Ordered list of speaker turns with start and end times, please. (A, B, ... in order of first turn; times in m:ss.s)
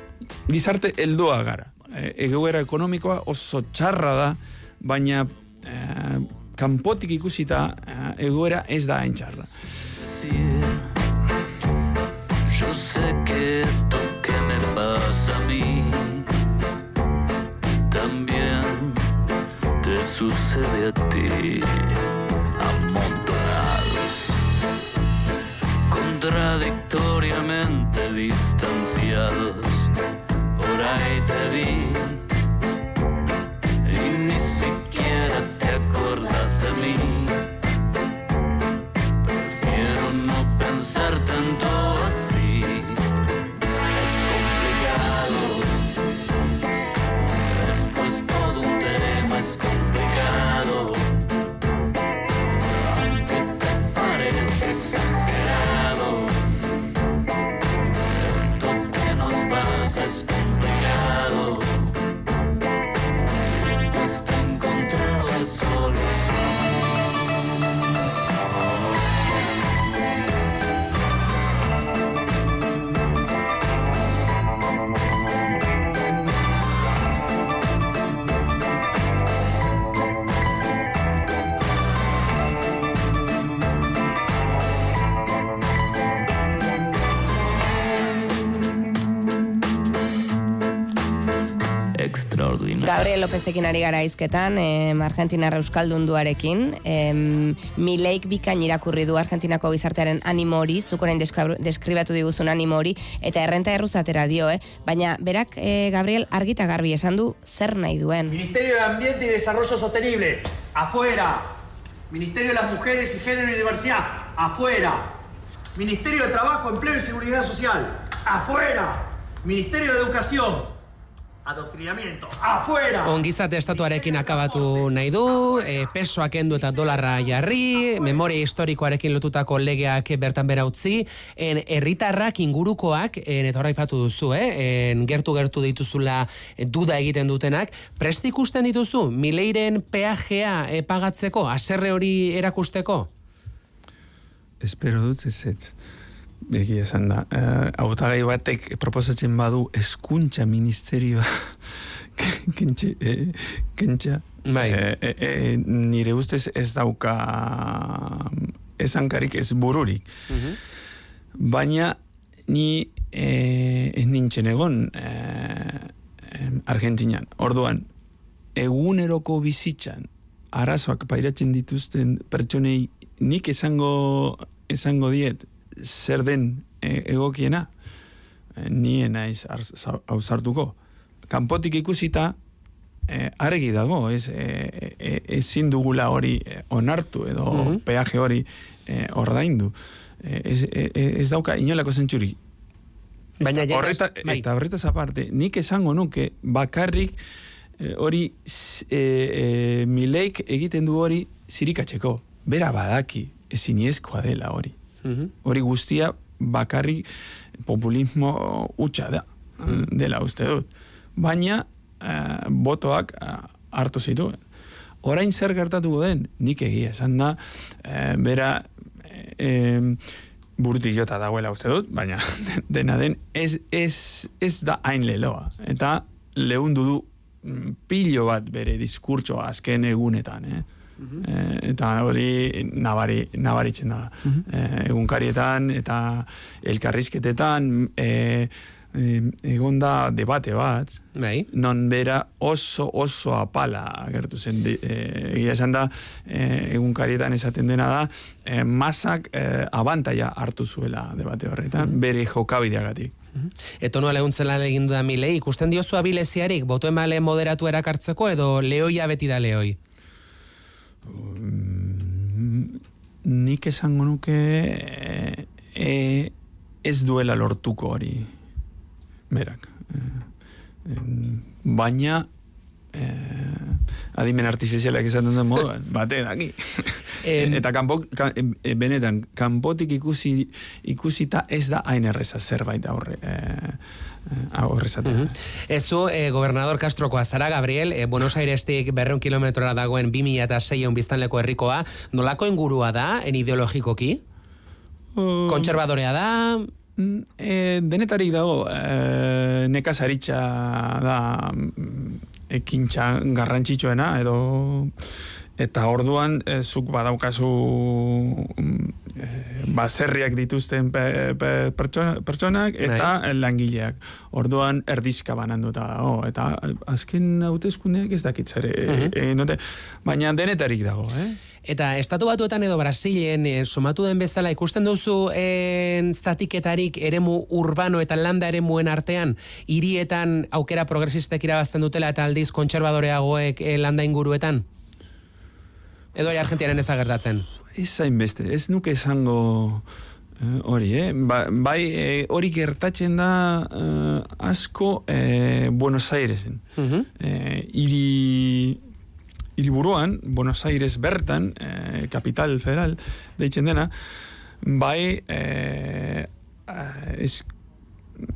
0:00.5-0:09.5 A
0:10.2-0:10.8 B
0:12.5-0:16.3 B
0:17.9-0:19.0 B
0:19.8-0:22.0 B
0:22.6-0:24.4 B
0:25.9-0:29.9 B
0:30.6-0:32.2 B
0:33.8-0:37.4 B
0:39.3-0:43.0 B
0:43.9-0:45.8 B
0:47.4-0:51.1 B
0:52.8-0:56.4 B
0:58.2-1:01.9 B
1:03.8-1:06.7 B
1:31.9-1:33.1 B
1:32.8-1:48.4 C
1:52.9-1:54.0 D
1:54.6-1:54.9 D
1:55.8-1:57.4 D
2:00.1-2:00.4 D
2:03.0-2:23.1 E
2:24.6-2:25.8 A
2:26.5-2:31.6 A
2:32.1-2:40.1 A
2:34.4-2:34.8 E
2:40.3-2:40.6 E
2:41.4-2:47.9 A
2:48.5-2:57.7 A
2:58.6-3:00.7 A
3:01.3-3:02.4 A
3:03.1-3:12.4 A
3:07.5-3:07.8 E
3:13.4-3:14.5 E
3:13.5-3:17.2 A
3:17.8-3:24.7 A
3:25.0-3:25.3 E
3:25.4-3:27.1 A
3:27.6-3:34.4 A
3:35.0-3:40.0 A
3:40.6-3:50.6 A
3:51.2-4:13.1 A
4:01.1-4:01.5 E
4:13.8-4:19.8 E
4:21.0-4:26.3 A
4:26.8-4:28.3 A
4:29.3-4:30.3 A
4:30.8-4:32.3 A
4:32.9-4:45.3 A
4:37.2-4:37.6 E
4:45.0-4:54.2 E
4:55.1-4:55.7 A
4:55.5-4:56.7 E
4:57.0-5:04.9 A
5:05.6-5:21.4 A
5:12.8-5:13.1 E
5:18.9-5:19.1 E
5:21.6-5:34.6 E
5:36.2-5:37.4 E
5:37.7-5:39.8 A
5:40.4-5:46.6 A
5:46.8-5:47.1 E
5:47.2-5:48.8 A
5:49.6-5:53.9 A
5:54.6-5:57.5 A